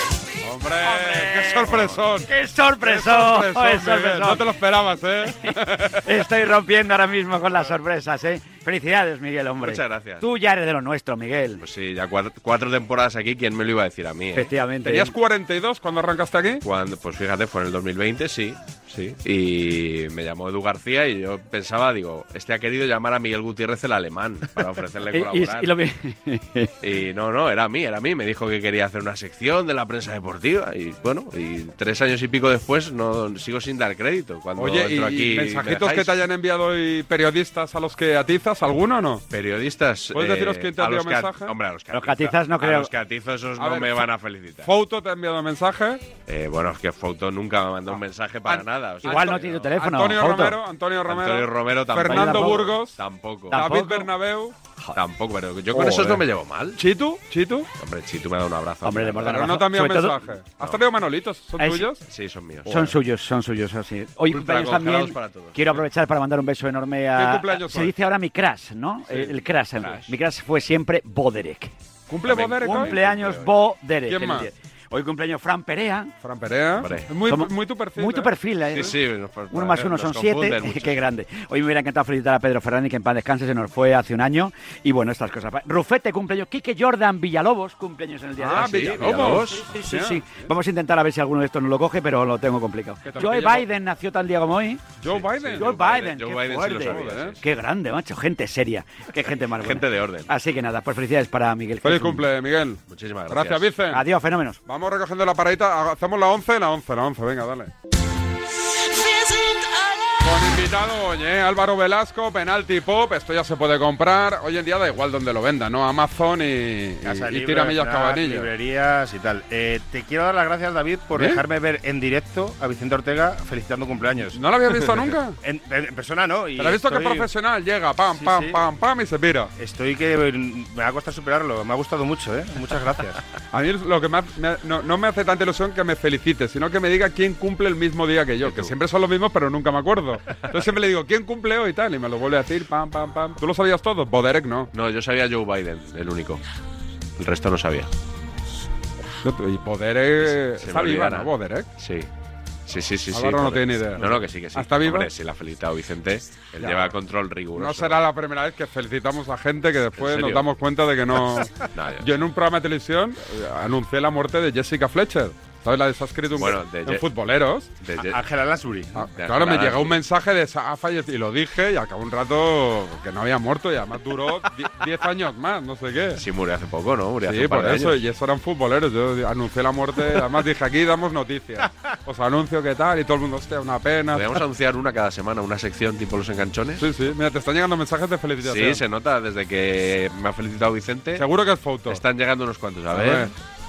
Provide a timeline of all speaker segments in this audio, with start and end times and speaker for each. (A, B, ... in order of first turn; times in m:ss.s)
0:00.4-0:02.3 A
0:00.7-0:04.5 B
0:02.8-0:05.9 A
0:05.2-0:05.5 B
0:06.0-0:11.6 B
0:09.6-0:10.2 C
0:11.6-0:14.5 C
0:14.3-0:15.1 B
0:14.8-0:16.6 A
0:16.6-0:25.8 C
0:25.1-0:26.7 B
0:26.8-0:36.2 C
0:34.6-0:39.2 A
0:39.3-0:44.7 C
0:40.1-0:41.5 A
0:41.9-0:42.9 B
0:43.6-0:44.1 A
0:44.6-0:46.0 A
0:46.2-0:49.7 C
0:48.5-0:53.0 A
0:49.0-0:50.6 B
0:51.1-0:53.6 C
0:52.0-0:52.9 B
0:53.5-0:54.1 B
0:53.5-0:54.6 A
0:54.9-0:56.8 C
0:55.7-0:56.1 B
0:56.8-0:57.7 A
0:57.8-0:59.4 C
0:58.8-1:00.3 B
0:59.2-1:02.0 A
1:01.6-1:01.9 B
1:02.0-1:03.0 C
1:02.6-1:11.7 B
1:04.3-1:05.8 C
1:07.2-1:07.9 A
1:09.8-1:10.1 C
1:12.1-1:13.0 A
1:12.2-1:13.5 C
1:12.4-1:16.1 B
1:14.1-1:14.5 A
1:16.2-1:18.3 A
1:16.8-1:17.1 C
1:17.2-1:19.0 B
1:18.6-1:21.0 C
1:19.5-1:42.3 B
1:28.4-1:30.4 A
1:28.6-1:29.7 C
1:33.1-1:33.6 A
1:35.0-1:35.7 A
1:35.1-1:37.4 C
1:36.8-1:37.4 A
1:39.5-1:40.3 C
1:41.8-1:44.0 A
1:42.9-1:43.7 C
1:43.9-1:44.6 B
1:44.6-1:47.7 A
1:50.2-1:58.5 A
1:57.0-2:07.3 D
2:01.2-2:01.4 A
2:04.3-2:05.4 A
2:06.6-2:09.5 A
2:08.1-2:08.6 D
2:09.6-2:13.2 D
2:13.5-2:24.7 A
2:18.4-2:18.7 C
2:24.7-2:26.4 C
2:27.2-2:27.9 C
2:29.2-2:31.7 A
2:30.2-2:32.1 C
2:32.7-2:38.0 C
2:33.1-2:35.1 A
2:36.6-2:36.9 A
2:37.6-2:47.7 A
2:40.0-2:40.5 C
2:41.7-2:42.1 C
2:46.3-2:47.0 C
2:47.8-2:48.2 C
2:48.0-2:49.1 D
2:49.0-2:56.2 A
2:49.1-2:50.0 C
2:56.2-2:58.0 C
2:57.2-3:04.4 A
3:04.1-3:06.8 C
3:06.8-3:08.8 A
3:08.4-3:11.2 C
3:11.2-3:12.0 A
3:11.9-3:13.3 C
3:12.9-3:13.3 A